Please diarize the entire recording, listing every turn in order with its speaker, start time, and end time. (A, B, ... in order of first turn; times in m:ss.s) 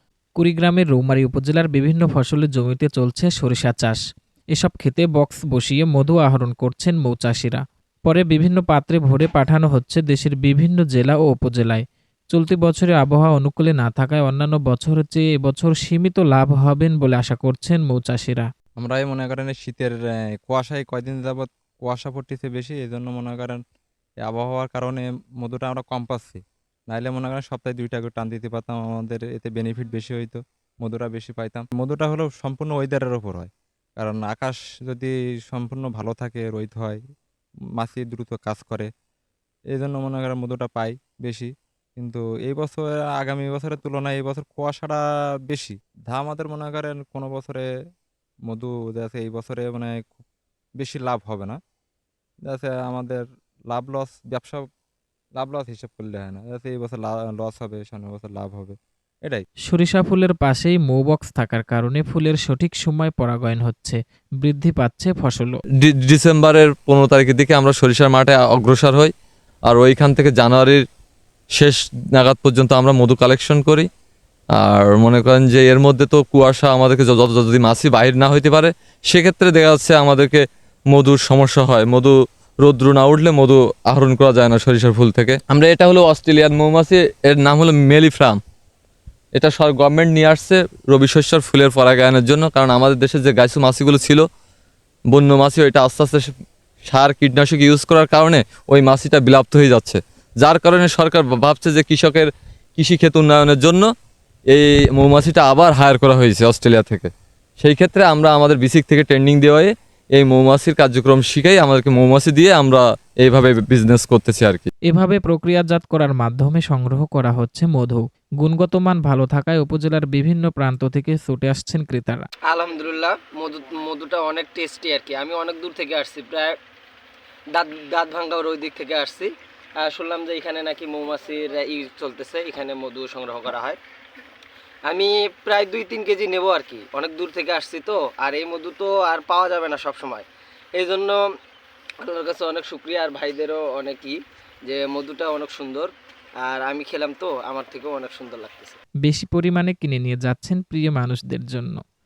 0:00.4-0:04.0 A
0:04.6-0:18.5 A
0:18.8-0:23.6 B
0:24.2-0:37.0 B
0:37.8-0:38.9 B
0:39.7-0:47.6 B
0:48.5-0:50.2 B
0:50.8-0:51.6 B
0:52.5-0:54.6 B
0:55.4-0:59.5 B
0:59.7-1:05.6 A
1:05.8-1:09.1 C
1:09.6-1:10.8 C
1:11.5-1:13.9 C
1:14.5-1:28.4 C
1:29.3-1:34.3 C
1:35.1-1:36.3 C
1:36.8-1:43.9 C
1:44.5-1:54.7 C
1:54.9-2:02.3 A
2:02.5-2:06.6 D
2:07.5-2:13.8 D
2:14.9-2:21.2 D
2:22.0-2:25.9 D
2:26.4-2:28.8 D
2:29.0-2:31.8 A